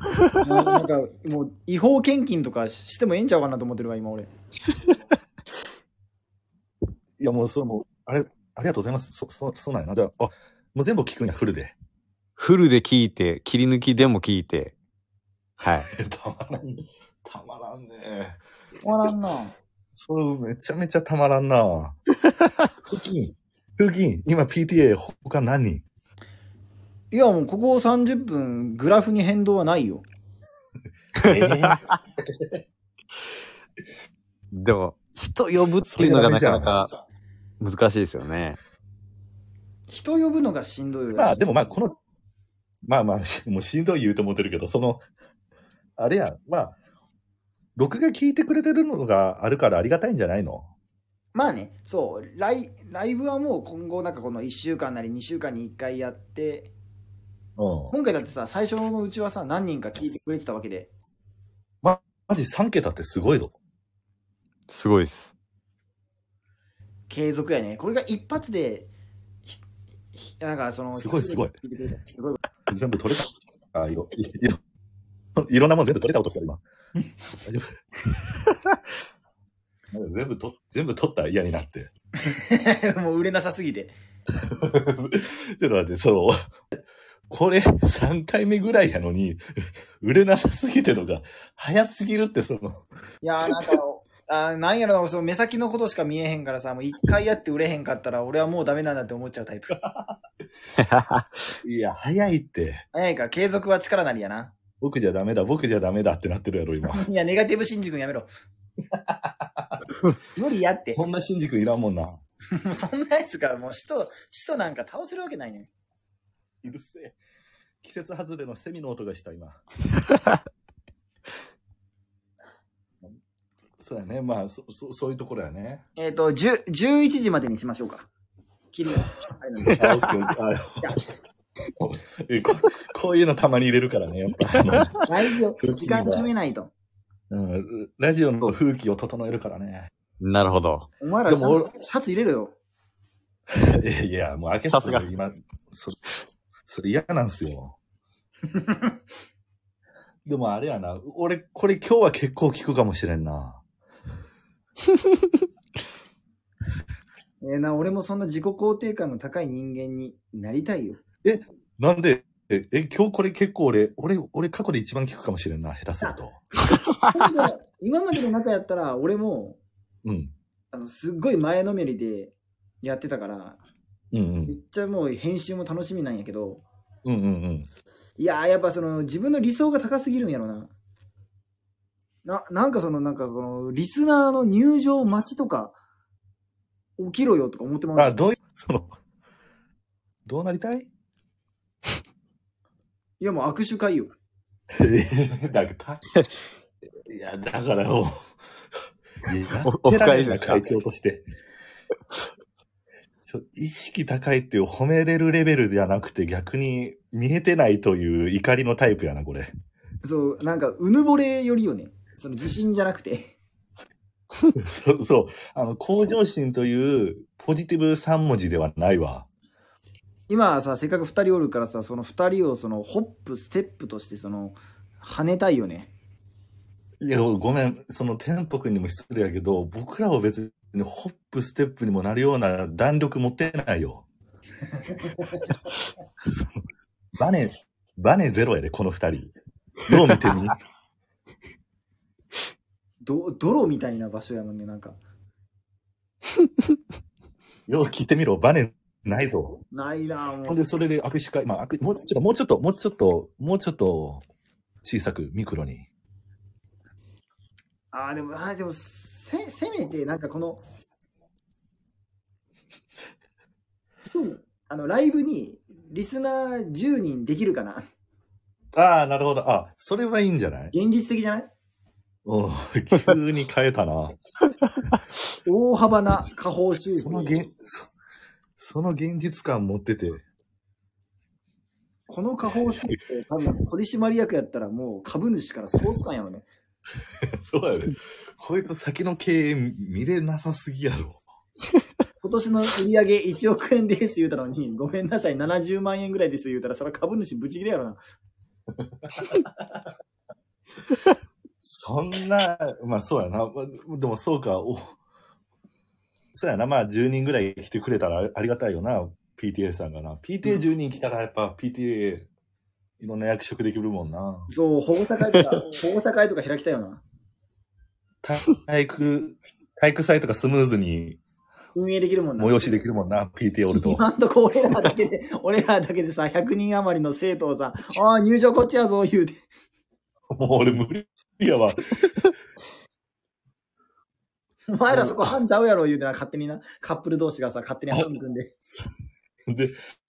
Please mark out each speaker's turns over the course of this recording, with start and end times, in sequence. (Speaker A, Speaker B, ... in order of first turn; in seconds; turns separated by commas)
Speaker A: 0.4-4.3, Speaker B: 7.2-11.8, Speaker C: 12.4-14.7, Speaker C: 15.6-15.9, Speaker B: 15.9-18.4, Speaker A: 18.8-19.6, Speaker B: 20.0-22.0, Speaker B: 22.9-25.9, Speaker A: 27.1-30.1, Speaker B: 31.2-31.8, Speaker C: 31.3-31.8, Speaker C: 34.5-36.9, Speaker B: 35.9-36.8, Speaker C: 37.6-38.6, Speaker A: 39.9-41.5, Speaker B: 41.1-42.0, Speaker B: 42.9-45.0, Speaker B: 46.0-46.8, Speaker B: 47.8-50.7, Speaker A: 51.3-56.7, Speaker B: 57.6-58.0, Speaker A: 57.9-60.9, Speaker B: 61.8-63.5, Speaker C: 64.7-65.3, Speaker A: 67.1-68.9, Speaker A: 70.2-72.4, Speaker B: 70.9-71.5, Speaker B: 72.7-74.6, Speaker B: 75.4-76.6, Speaker B: 77.5-77.7, Speaker B: 79.9-81.9, Speaker A: 82.2-84.0, Speaker B: 84.6-89.4, Speaker B: 90.0-92.8, Speaker A: 93.2-99.8, Speaker B: 99.8-100.2, Speaker C: 100.8-101.5, Speaker B: 101.6-102.8, Speaker A: 102.9-104.5, Speaker B: 104.8-107.0, Speaker A: 106.9-108.3, Speaker B: 108.9-109.8, Speaker A: 110.3-111.0, Speaker B: 110.9-112.2, Speaker A: 112.6-115.7, Speaker B: 116.6-117.2, Speaker B: 117.8-119.6, Speaker B: 123.8-125.8, Speaker A: 126.0-128.1, Speaker A: 128.7-129.9, Speaker B: 129.8-131.0, Speaker B: 131.8-135.0, Speaker A: 135.1-136.7, Speaker B: 135.6-136.3, Speaker B: 137.3-139.9, Speaker C: 140.2-140.9, Speaker A: 141.0-142.5, Speaker B: 141.3-141.7, Speaker B: 143.7-146.0, Speaker C: 144.7-145.1, Speaker B: 146.7-147.8, Speaker A: 148.5-149.0, Speaker B: 150.2-153.6, Speaker A: 157.4-161.0, Speaker B: 161.2-166.4, Speaker C: 166.7-167.3, Speaker A: 167.1-169.6, Speaker B: 170.1-170.3, Speaker A: 170.7-173.6, Speaker B: 174.1-174.6, Speaker A: 174.5-176.7, Speaker B: 177.1-177.7, Speaker A: 178.2-180.7, Speaker A: 182.2-185.8, Speaker A: 187.0-188.2, Speaker B: 188.0-188.9, Speaker B: 190.3-190.9, Speaker A: 193.2-194.1, Speaker B: 194.8-196.0, Speaker B: 197.1-198.1, Speaker B: 199.3-201.3, Speaker C: 199.6-200.7, Speaker B: 203.2-209.5, Speaker A: 210.0-213.3, Speaker B: 214.6-219.3, Speaker A: 220.3-225.9, Speaker B: 227.0-234.1, Speaker A: 234.8-235.4, Speaker B: 237.2-239.3, Speaker B: 239.9-240.6, Speaker A: 243.0-245.0, Speaker B: 247.7-249.6, Speaker A: 249.7-250.6, Speaker B: 250.5-254.2, Speaker B: 254.8-255.9, Speaker A: 257.9-260.6, Speaker A: 264.1-267.8, Speaker B: 268.8-270.7, Speaker A: 270.7-271.5, Speaker B: 272.3-274.2, Speaker A: 275.5-277.4, Speaker B: 276.9-277.9, Speaker B: 278.6-280.2, Speaker A: 282.1-286.5, Speaker B: 282.4-282.8, Speaker B: 287.5-291.2, Speaker A: 292.2-298.0, Speaker B: 301.6-304.9, Speaker B: 306.3-312.3, Speaker B: 313.0-314.5, Speaker A: 314.5-317.0, Speaker B: 318.2-321.2, Speaker A: 321.8-322.8, Speaker B: 322.4-324.0, Speaker A: 323.8-329.4, Speaker B: 330.4-332.1, Speaker A: 334.7-338.5, Speaker B: 334.9-335.3, Speaker B: 339.5-339.8